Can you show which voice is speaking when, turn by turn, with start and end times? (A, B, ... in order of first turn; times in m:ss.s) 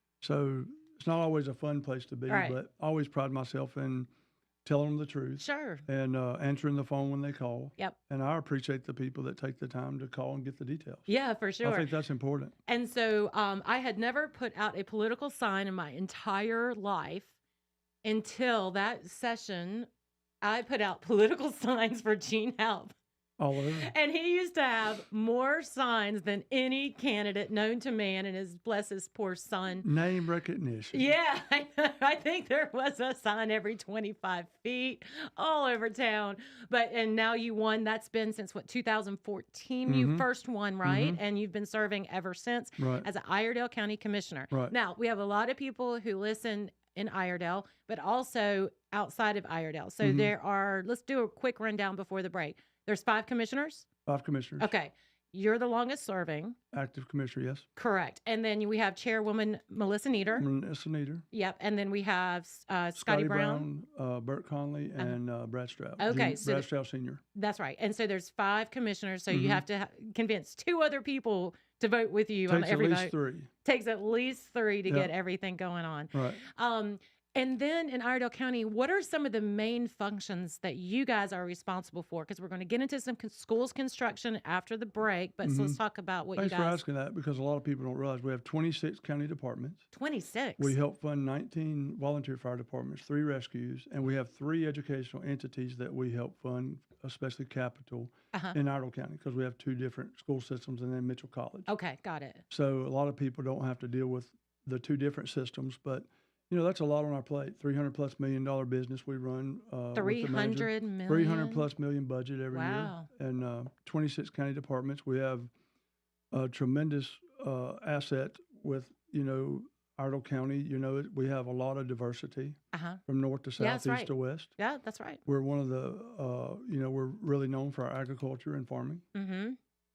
0:00.2-0:04.1 A
0:02.3-0:02.6 B
0:04.6-0:11.1 A
0:05.4-0:05.8 B
0:11.1-0:11.9 B
0:11.6-0:12.6 A
0:12.7-0:17.3 B
0:18.0-0:19.9 B
0:20.4-0:23.0 B
0:23.4-0:23.9 A
0:23.8-0:29.9 B
0:29.8-0:31.1 A
0:30.9-0:53.9 B
0:39.9-0:40.3 A
0:40.8-0:41.2 A
0:42.8-0:43.1 A
0:50.0-0:50.3 A
0:54.1-0:54.7 A
0:54.6-0:56.6 B
0:56.7-0:57.7 A
0:57.8-1:00.5 B
1:00.4-1:01.2 A
1:01.3-1:03.7 B
1:03.0-1:07.2 A
1:06.0-1:06.7 B
1:07.4-1:26.8 B
1:09.3-1:09.6 A
1:12.5-1:13.5 A
1:14.9-1:15.1 A
1:16.1-1:16.4 A
1:25.4-1:25.8 A
1:26.4-1:29.9 A
1:29.9-1:30.8 B
1:30.6-1:41.7 A
1:41.7-1:42.4 B
1:42.5-1:55.5 A
1:50.0-1:51.7 B
1:52.5-1:53.1 B
1:56.3-2:04.6 A
2:02.7-2:03.0 B
2:03.6-2:05.2 B
2:05.3-2:09.0 A
2:09.1-2:09.6 B